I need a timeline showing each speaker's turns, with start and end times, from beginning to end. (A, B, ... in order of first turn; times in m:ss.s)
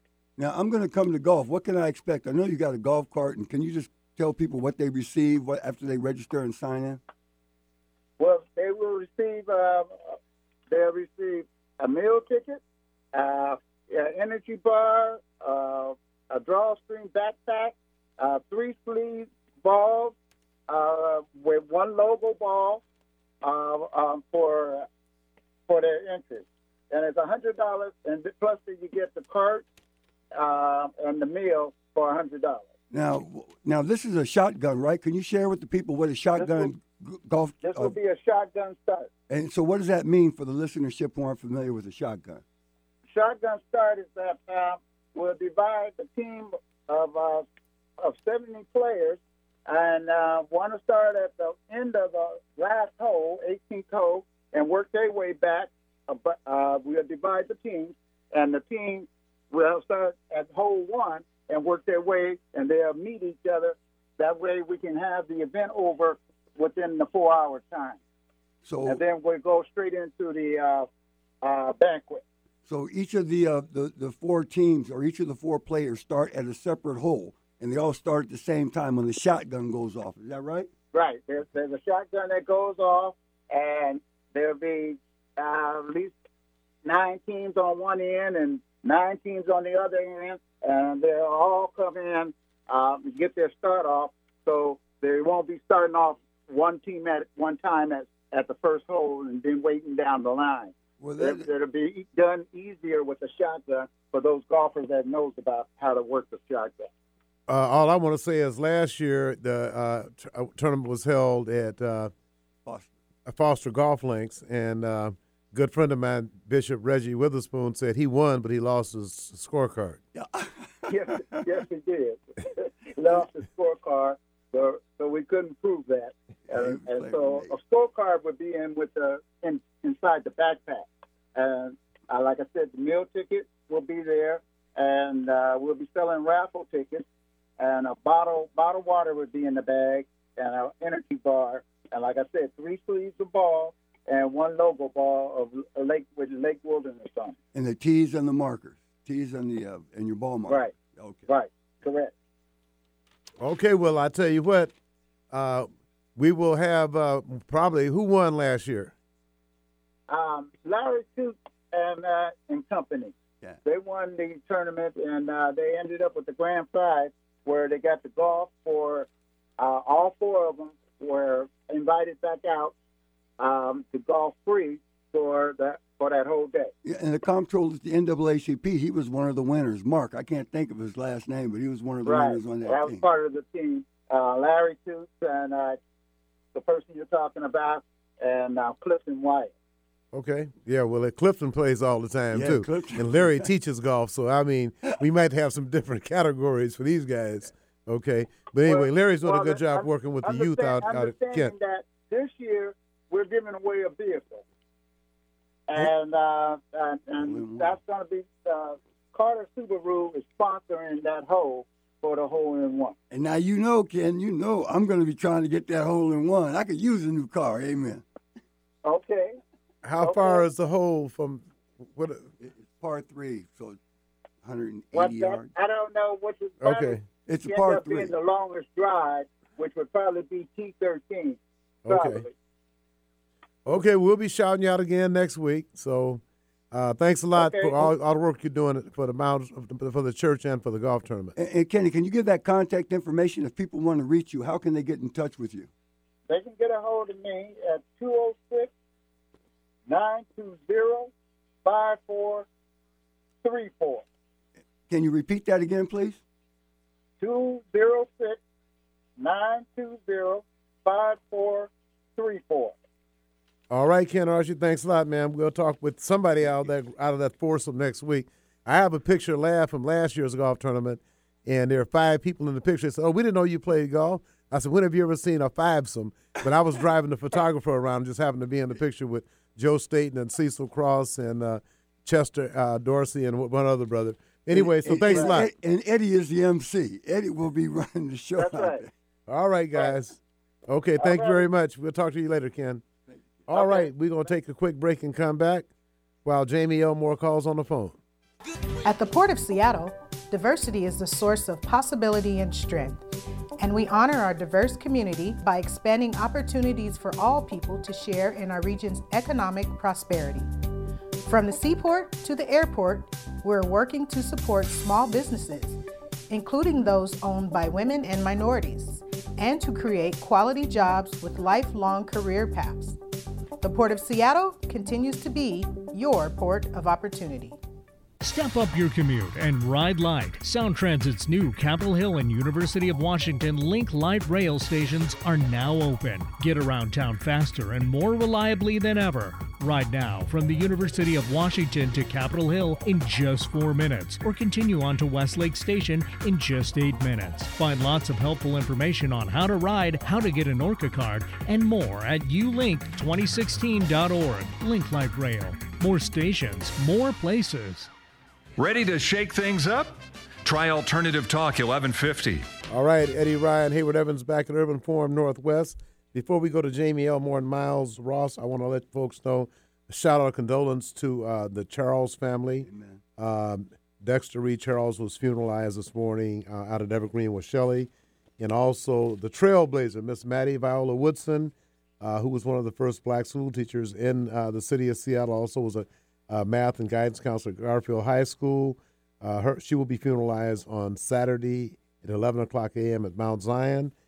0:00.4-0:07.0 A
0:08.2-0:10.2 B
0:10.7-0:12.6 B
0:13.1-0:20.2 B
0:20.7-0:22.8 B
0:23.4-0:24.9 B
0:25.7-0:29.7 B
0:30.3-0:32.7 B
0:32.9-0:38.0 A
0:36.4-0:36.7 B
0:37.6-0:39.1 B
0:39.3-0:42.4 A
0:43.1-0:47.5 B
0:48.0-1:08.0 B
1:08.7-1:09.0 A
1:08.9-1:10.9 B
1:11.4-1:12.2 B
1:12.7-1:20.7 A
1:20.9-1:26.2 B
1:26.8-1:46.9 B
1:41.0-1:41.5 A
1:47.5-1:52.1 C
1:52.7-1:52.9 A
1:53.3-2:00.0 C
2:00.2-2:01.4 A
2:00.9-2:17.0 B
2:06.5-2:07.5 A
2:17.6-2:27.4 B
2:27.5-2:31.3 A
2:30.5-2:30.8 B
2:31.3-2:32.1 B
2:33.4-2:34.7 C
2:35.3-2:38.9 C
2:40.1-2:43.1 B
2:43.6-2:49.1 B
2:49.6-2:52.7 B
2:53.4-2:56.7 B
2:56.8-3:03.0 A
3:02.0-3:05.8 B
3:06.5-3:09.5 B
3:10.1-3:21.5 C
3:12.3-3:13.4 A
3:18.6-3:24.4 B
3:25.7-3:33.0 B
3:27.2-3:27.7 A
3:33.1-3:38.0 A
3:38.8-3:39.4 B
3:39.8-3:42.3 C
3:40.0-3:40.4 B
3:42.4-3:43.8 A
3:44.4-3:45.5 A
3:44.9-3:52.3 B
3:46.6-3:47.0 C
3:47.3-3:48.1 A
3:51.9-3:52.2 C
3:53.7-3:56.2 C
3:56.7-4:01.4 C
3:57.4-3:57.9 B
4:01.4-4:05.7 A
4:06.3-4:08.7 B
4:09.9-4:11.1 B
4:11.6-4:12.5 B
4:13.4-4:14.0 B
4:14.9-4:16.2 A
4:17.2-4:18.4 B
4:19.2-4:22.8 B
4:23.7-4:45.5 C
4:44.5-4:48.9 A
4:45.1-4:45.3 B
4:48.4-4:48.8 B
4:49.3-4:52.8 C
4:51.0-4:51.4 B
4:53.5-4:55.7 C
4:53.5-4:53.9 B
4:56.2-4:58.0 C
4:58.9-5:03.1 D
5:03.6-5:10.5 D
5:11.2-5:23.0 D
5:23.6-5:27.6 D
5:28.2-5:57.9 E
5:58.6-6:02.5 F
6:02.7-6:12.7 C
6:12.6-6:13.0 A
6:13.2-6:33.9 C